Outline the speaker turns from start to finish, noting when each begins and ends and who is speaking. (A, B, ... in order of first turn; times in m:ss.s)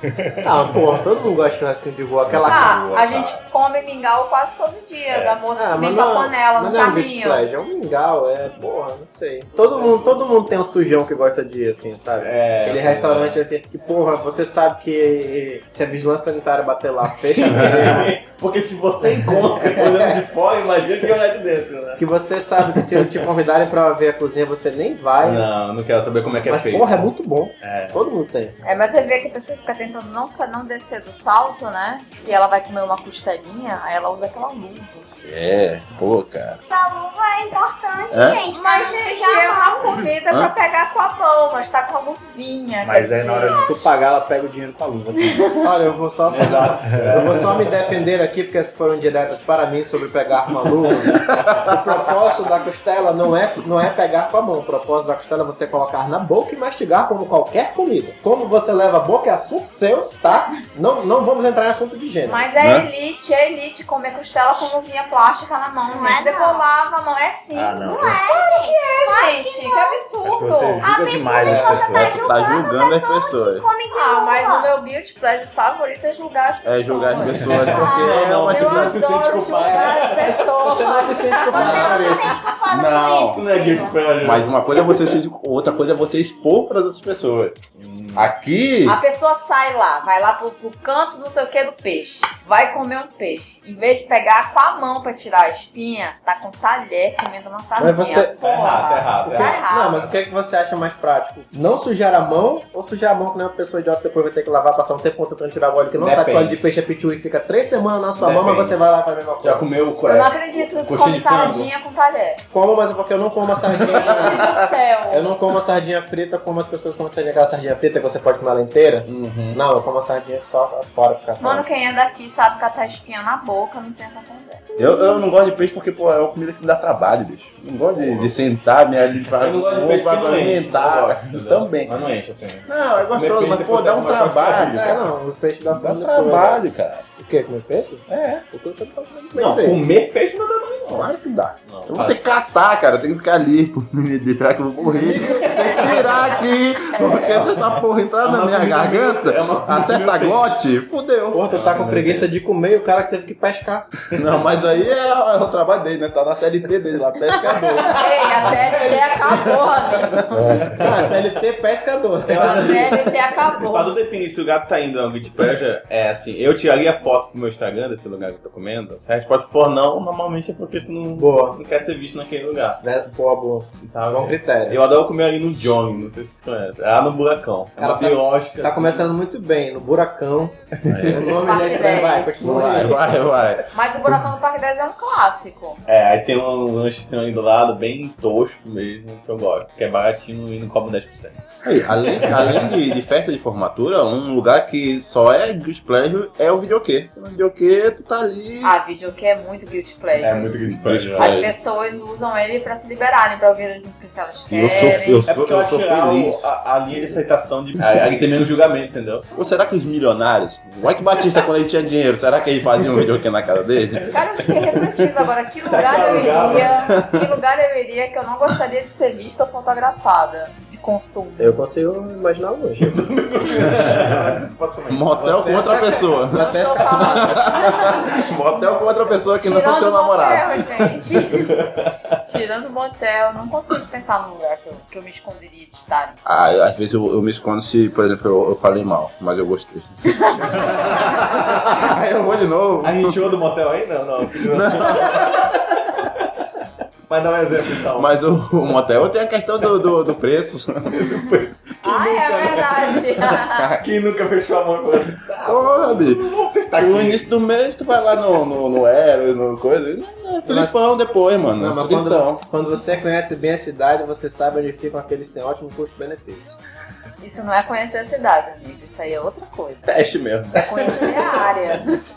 0:00.2-0:01.0 A
0:00.4-0:02.9 B
0:02.3-0:03.4 A
0:02.4-0:07.4 C
0:05.1-0:05.4 A
0:05.6-0:18.1 B
0:09.7-0:09.9 A
0:12.2-0:13.4 A
0:17.2-0:22.0 A
0:19.6-0:20.2 B
0:21.9-0:25.5 B
0:22.7-0:23.2 A
0:25.2-0:28.0 A
0:26.4-0:28.6 B
0:28.6-0:35.0 C
0:35.2-0:36.6 D
0:36.7-0:39.9 E
0:38.1-0:38.4 D
0:38.5-0:43.6 C
0:42.8-0:45.4 F
0:45.2-0:45.6 C
0:45.6-1:02.5 B
0:46.3-0:47.7 A
1:02.2-1:10.9 C
1:02.6-1:02.9 D
1:05.9-1:06.7 E
1:07.5-1:08.2 F
1:07.8-1:10.0 E
1:10.2-1:12.2 F
1:10.8-1:14.7 E
1:11.4-1:11.8 B
1:11.9-1:13.6 D
1:13.9-1:22.5 C
1:16.6-1:19.0 D
1:17.4-1:20.5 A
1:17.8-1:18.2 E
1:19.5-1:22.3 B
1:21.5-1:24.0 E
1:21.6-1:22.0 D
1:22.7-1:23.4 D
1:23.3-1:25.0 A
1:24.2-1:27.6 D
1:27.8-1:28.3 A
1:28.2-1:29.0 D
1:28.8-1:40.0 C
1:37.8-1:38.3 B
1:38.4-1:39.6 A
1:39.2-1:49.7 B
1:45.9-1:46.7 A
1:48.2-1:48.8 A
1:49.4-1:51.7 A
1:50.1-1:52.4 C
1:52.5-1:54.5 B
1:53.7-1:55.3 C
1:54.2-1:54.7 D
1:55.1-2:01.6 B
1:59.0-1:59.6 D
2:01.4-2:04.7 C
2:04.8-2:12.1 D
2:04.8-2:05.2 E
2:08.0-2:08.3 A
2:09.3-2:15.0 A
2:12.7-2:15.0 D
2:14.7-2:16.6 B
2:15.7-2:17.0 D
2:17.2-2:19.8 B
2:18.1-2:18.4 A
2:19.3-2:21.1 A
2:20.9-2:31.4 D
2:21.6-2:22.2 A
2:24.9-2:26.2 B
2:25.1-2:26.3 A
2:27.0-2:30.6 A
2:31.3-2:33.9 B
2:31.5-2:32.3 A
2:34.1-2:40.5 D
2:37.8-2:40.6 C
2:40.7-2:43.0 B
2:42.3-2:52.8 A
2:42.4-2:44.0 C
2:51.2-2:51.6 B
2:52.8-2:54.8 B
2:53.8-2:59.1 A
2:57.8-3:00.6 B
3:00.8-3:01.3 D
3:00.9-3:01.2 A
3:01.1-3:03.1 B
3:01.3-3:02.4 C
3:02.4-3:03.7 D
3:03.7-3:05.8 C
3:05.9-3:11.4 A
3:11.6-3:18.8 D
3:12.2-3:12.7 A
3:18.6-3:20.4 C
3:20.2-3:21.4 A
3:20.4-3:21.5 D
3:21.1-3:25.3 C
3:24.5-3:26.5 D
3:25.2-3:29.2 A
3:29.3-3:35.0 D
3:34.1-3:41.6 C
3:35.6-3:36.8 A
3:36.8-3:37.2 D
3:41.4-3:43.0 B
3:42.8-3:45.4 A
3:44.9-3:50.9 D
3:45.2-3:47.7 B
3:46.3-3:51.6 C
3:51.2-3:52.2 A
3:52.2-3:56.2 C
3:56.2-4:03.2 D
4:00.1-4:00.6 C
4:02.8-4:06.2 A
4:04.4-4:05.4 D
4:07.1-4:08.1 A
4:07.9-4:11.3 D
4:10.9-4:17.2 A
4:11.8-4:13.7 C
4:13.3-4:13.8 D
4:15.4-4:22.4 D
4:20.4-4:20.8 B
4:21.6-4:26.6 B
4:27.2-4:30.0 C
4:29.9-4:31.5 A
4:30.5-4:32.0 C